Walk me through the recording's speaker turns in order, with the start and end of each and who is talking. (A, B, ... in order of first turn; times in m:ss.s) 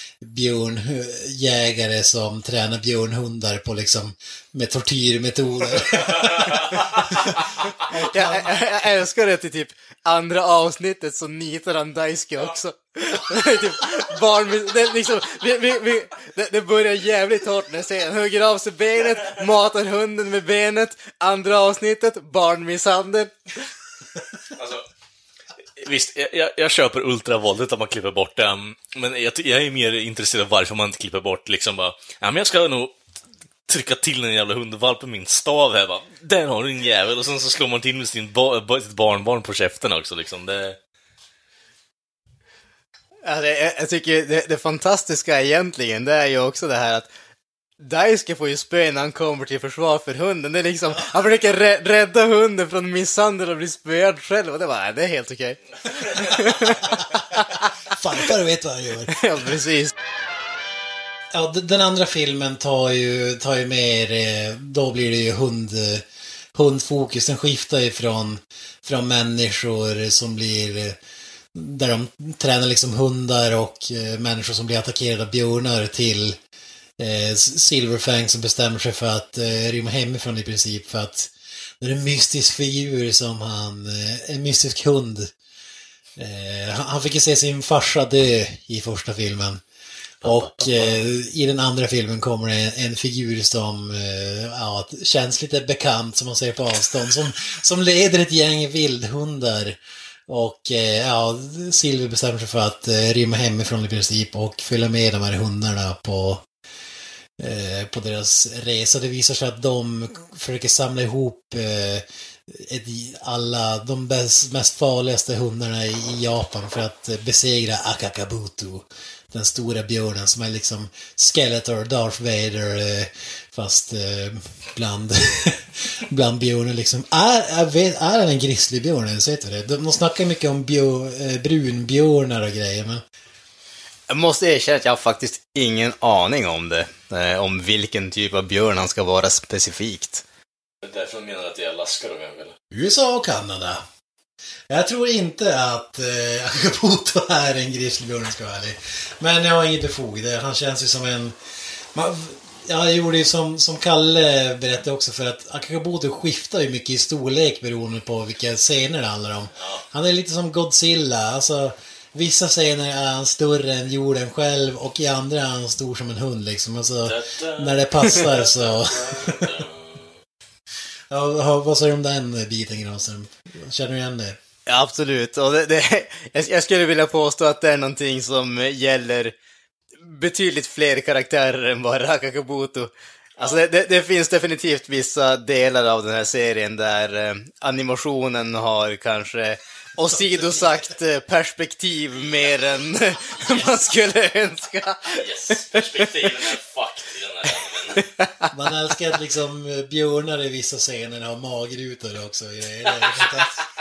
0:00.2-0:08.6 A
0:08.1-0:23.4 B
0:24.5-0:24.8 C
0:25.8-0:33.0 C
0:33.7-0:40.8 C
0:43.2-0:47.1 B
0:47.8-0:57.6 B
0:56.8-0:59.5 A
0:59.1-0:59.9 B
1:01.3-1:11.0 A
1:11.5-1:16.4 A
1:17.0-1:25.3 A
1:26.2-1:29.6 A
1:30.2-1:46.4 A
1:30.2-1:31.0 C
1:47.4-2:13.0 A
2:14.1-2:20.2 B
2:20.8-2:22.6 C
2:22.7-2:23.8 A
2:24.7-2:31.4 A
2:31.9-2:49.6 A
2:47.0-2:50.2 C
2:51.1-2:54.4 A
2:54.7-2:59.3 B
3:00.0-3:15.2 B
3:10.0-3:10.9 A
3:15.1-3:18.1 C
3:15.7-3:16.1 B
3:18.0-3:18.5 B
3:18.5-3:23.6 A